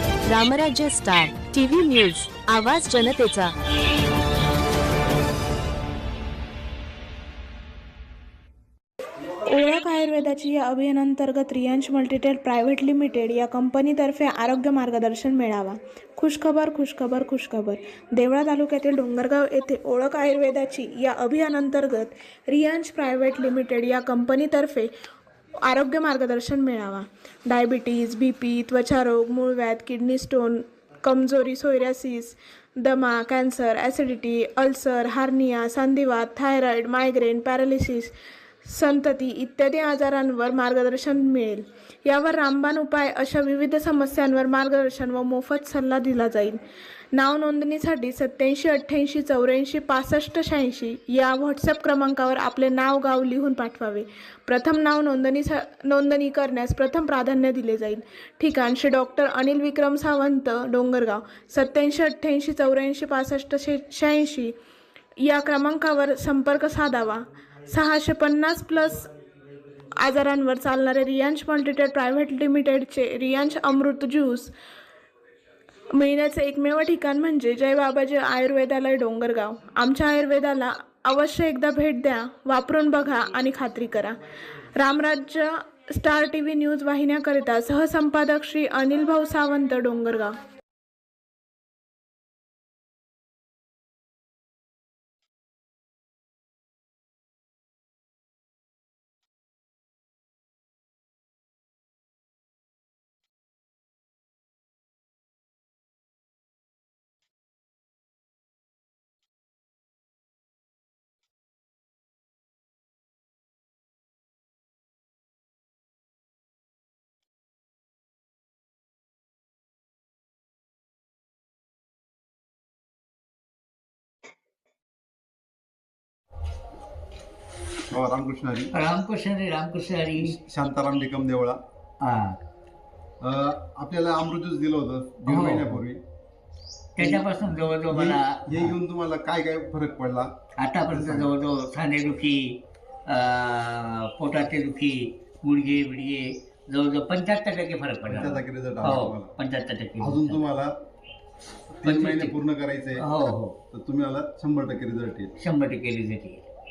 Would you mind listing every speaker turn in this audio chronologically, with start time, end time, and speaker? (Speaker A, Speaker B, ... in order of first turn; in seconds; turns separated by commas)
Speaker A: 0.2-3.5, Speaker B: 9.4-24.9, Speaker B: 25.6-46.6, Speaker B: 47.1-64.5, Speaker B: 65.2-69.1, Speaker B: 69.9-74.5, Speaker B: 75.9-84.2, Speaker B: 84.8-90.4, Speaker C: 127.9-128.7, Speaker D: 128.7-130.3, Speaker C: 130.2-131.6, Speaker D: 132.0-132.4, Speaker C: 133.2-136.0, Speaker D: 135.2-135.8, Speaker D: 136.9-138.7, Speaker C: 137.0-140.3, Speaker D: 140.6-142.6, Speaker C: 140.9-141.3, Speaker D: 143.1-150.4, Speaker C: 148.1-149.3, Speaker C: 150.0-150.7, Speaker C: 151.8-153.1, Speaker D: 151.8-152.4, Speaker D: 153.0-153.6, Speaker C: 153.7-155.3, Speaker D: 155.4-156.4